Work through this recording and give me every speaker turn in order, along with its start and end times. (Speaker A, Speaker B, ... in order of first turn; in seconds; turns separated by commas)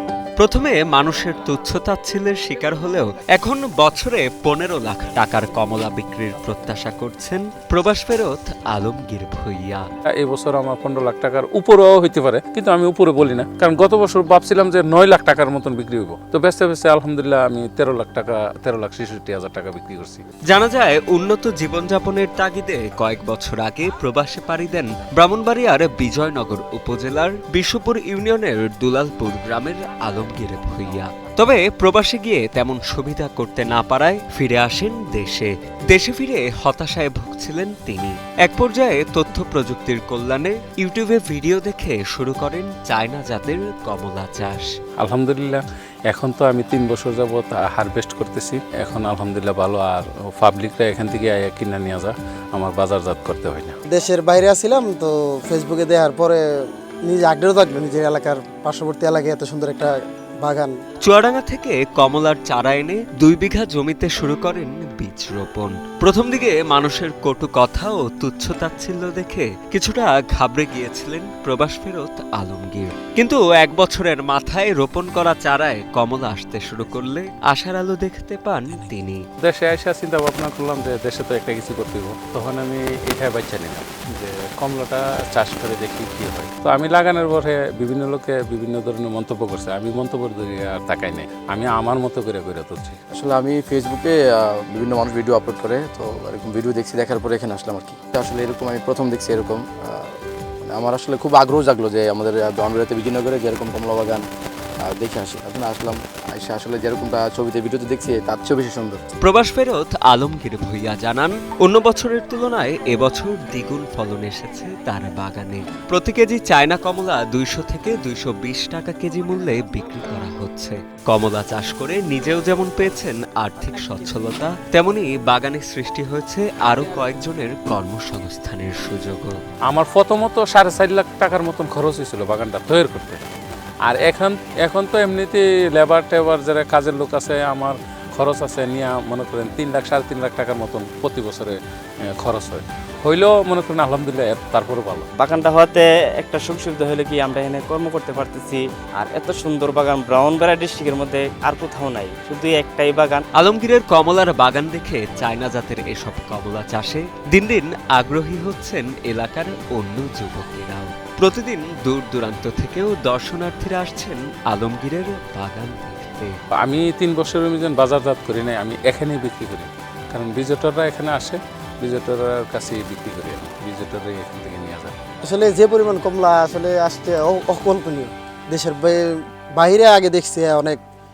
Speaker A: 0.4-9.8, Speaker B: 10.2-20.2, Speaker A: 20.5-44.7, Speaker B: 45.0-53.7, Speaker C: 53.9-56.4, Speaker C: 57.0-59.9, Speaker C: 60.4-60.8, Speaker A: 61.0-79.2, Speaker B: 79.4-93.0, Speaker D: 93.1-104.3, Speaker D: 104.8-109.0, Speaker A: 109.2-129.3, Speaker B: 129.7-133.2, Speaker B: 133.8-141.6, Speaker B: 142.2-145.1, Speaker E: 145.2-153.2, Speaker A: 153.3-166.3, Speaker B: 166.6-174.9, Speaker C: 175.2-179.0, Speaker C: 179.6-180.8